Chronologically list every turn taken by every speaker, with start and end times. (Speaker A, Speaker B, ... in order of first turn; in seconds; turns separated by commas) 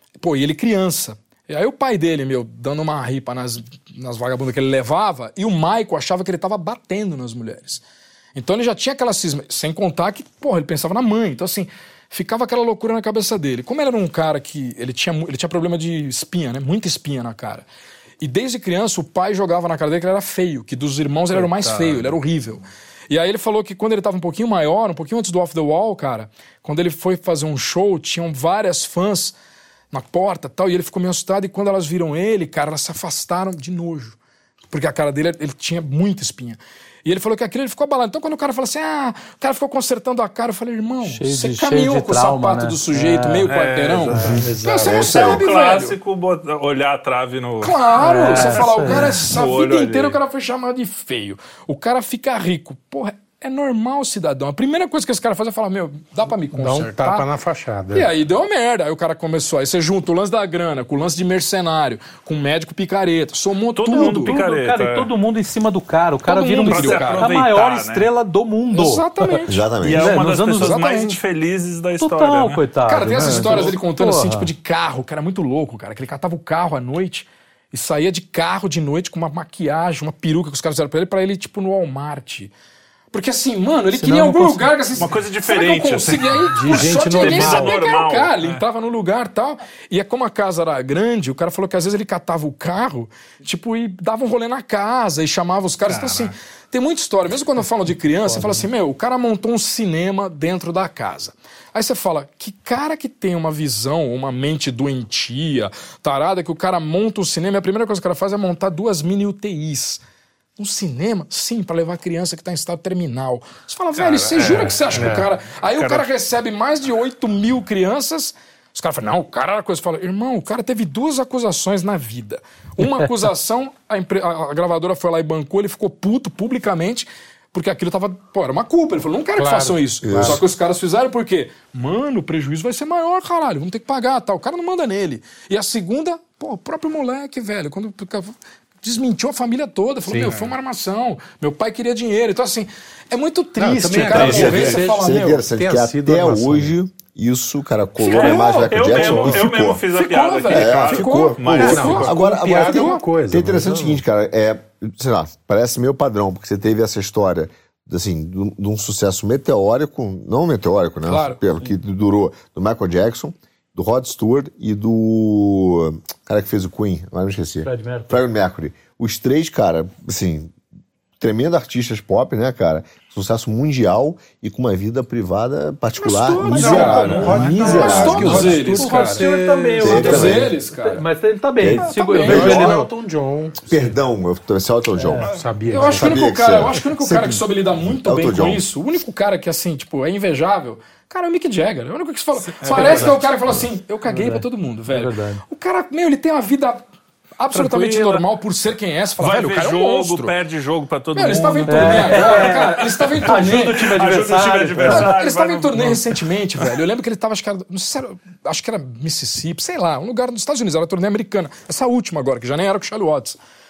Speaker A: 0.2-7.8, Speaker A: 8.3-17.6, Speaker A: 18.2-29.4, Speaker B: 21.3-22.2, Speaker A: 29.9-34.2, Speaker A: 34.7-46.0, Speaker C: 41.0-43.5, Speaker B: 43.5-50.2, Speaker D: 44.2-45.1, Speaker E: 44.3-45.5, Speaker A: 47.6-57.3, Speaker C: 48.0-49.1, Speaker D: 56.5-58.1, Speaker A: 57.9-64.4, Speaker B: 63.8-65.1, Speaker C: 63.9-69.4, Speaker A: 66.3-67.3, Speaker B: 66.7-68.1, Speaker A: 68.7-71.2, Speaker E: 69.5-70.1, Speaker B: 69.8-72.6, Speaker C: 70.0-70.7, Speaker C: 72.0-74.5, Speaker A: 72.8-82.5, Speaker D: 73.2-73.5, Speaker A: 83.1-110.0, Speaker C: 84.0-84.7, Speaker B: 85.0-88.6, Speaker D: 86.5-87.7, Speaker B: 95.9-96.3, Speaker A: 110.6-145.4, Speaker B: 114.0-116.1, Speaker D: 115.0-115.3, Speaker D: 129.4-130.4, Speaker E: 130.0-130.4, Speaker D: 140.1-140.5, Speaker D: 143.6-146.7, Speaker B: 143.9-144.8, Speaker E: 144.1-149.8, Speaker A: 148.0-153.0, Speaker B: 148.1-152.2, Speaker E: 150.5-170.5, Speaker D: 151.5-154.0, Speaker A: 161.1-161.4, Speaker C: 167.6-168.2, Speaker E: 171.2-178.6, Speaker D: 176.0-180.5, Speaker A: 176.1-179.3, Speaker B: 176.5-178.5, Speaker C: 177.3-182.9, Speaker A: 179.8-181.1, Speaker E: 179.8-180.5, Speaker E: 181.6-182.8, Speaker A: 181.9-182.7, Speaker D: 181.9-184.0, Speaker E: 183.7-188.7, Speaker C: 185.0-185.3, Speaker D: 185.2-186.3, Speaker A: 185.7-196.8, Speaker B: 192.3-193.2, Speaker D: 192.7-193.1, Speaker C: 192.8-193.1, Speaker C: 194.1-195.4, Speaker A: 197.4-200.3, Speaker B: 197.5-198.2, Speaker B: 199.2-206.6, Speaker A: 201.2-204.0, Speaker C: 201.7-205.2, Speaker A: 204.8-213.4